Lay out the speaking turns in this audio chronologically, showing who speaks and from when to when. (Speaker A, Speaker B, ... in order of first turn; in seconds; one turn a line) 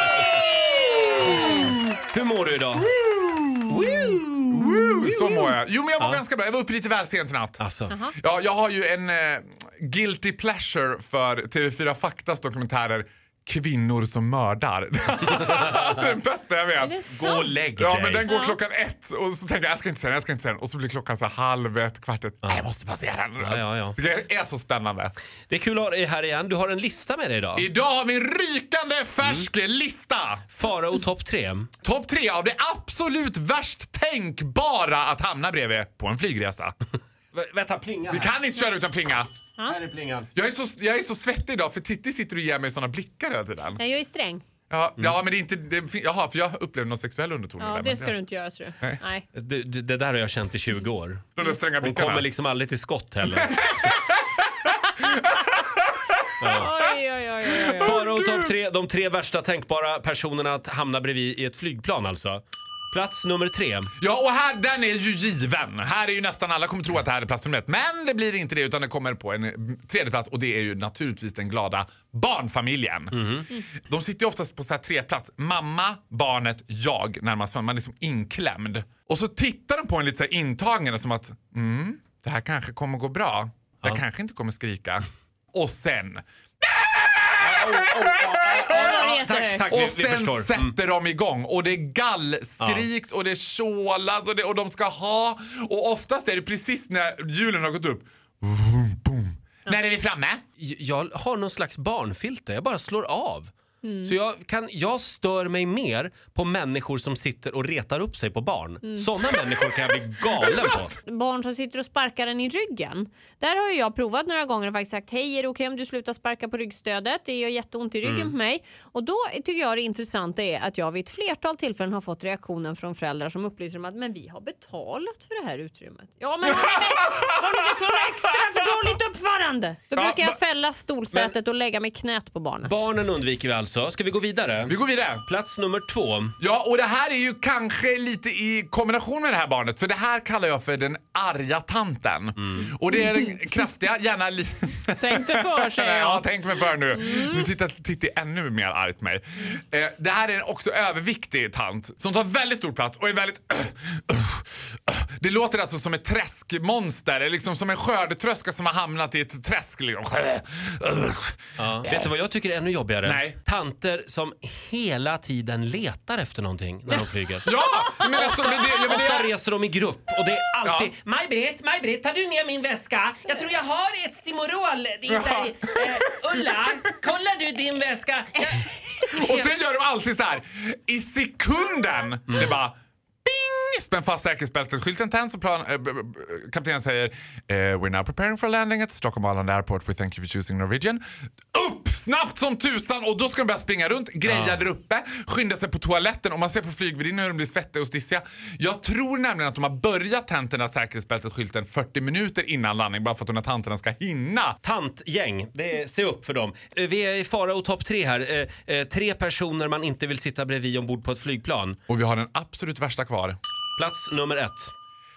Speaker A: 1.2-2.9
Speaker B: 3.0-3.9
Speaker A: 3.7-5.3
Speaker B: 4.5-7.6
Speaker A: 7.6-7.9
Speaker B: 8.2-17.0
Speaker C: 16.8-17.5
Speaker A: 17.1-18.3
Speaker B: 17.8-25.1
Speaker C: 18.3-18.6
Speaker A: 23.4-24.0
Speaker A: 25.5-27.7
Speaker B: 27.6-30.4
Speaker A: 30.5-31.7
Speaker B: 31.8-36.7
Speaker A: 37.3-38.3
Speaker B: 38.1-39.3
Speaker A: 39.7-40.3
Speaker B: 40.3-43.8
Speaker C: 43.8-44.5
Speaker B: 44.7-48.2
Speaker C: 47.6-49.2
Speaker A: 49.3-53.5
Speaker B: 51.4-52.2
Speaker B: 53.3-55.6
Speaker A: 56.4-56.7
Speaker C: 56.5-58.0
Speaker B: 57.6-58.5
Speaker A: 57.8-63.9
Speaker B: 64.0-88.6
Speaker A: 73.2-73.5
Speaker A: 87.4-90.7
Speaker C: 88.6-89.6
Speaker B: 89.7-100.4
Speaker A: 92.6-92.8
Speaker A: 100.6-103.5
Speaker C: 103.8-104.1
Speaker A: 104.0-110.9
Speaker C: 111.0-132.7
Speaker A: 118.0-118.3
Speaker B: 129.9-130.4
Speaker A: 132.7-136.3
Speaker B: 134.7-135.2
Speaker B: 136.4-162.1
Speaker C: 142.9-143.2
Speaker C: 145.0-146.3
Speaker C: 146.9-147.5
Speaker A: 161.6-167.5
Speaker B: 163.0-163.4
Speaker B: 167.4-169.3
Speaker C: 167.8-168.1
Speaker A: 168.0-179.5
Speaker B: 170.7-170.9
Speaker B: 175.1-175.5
Speaker B: 179.1-191.0
Speaker B: 191.5-204.6
Speaker A: 194.3-194.6
Speaker A: 204.6-211.8
Speaker B: 211.9-213.4
Speaker A: 213.8-214.7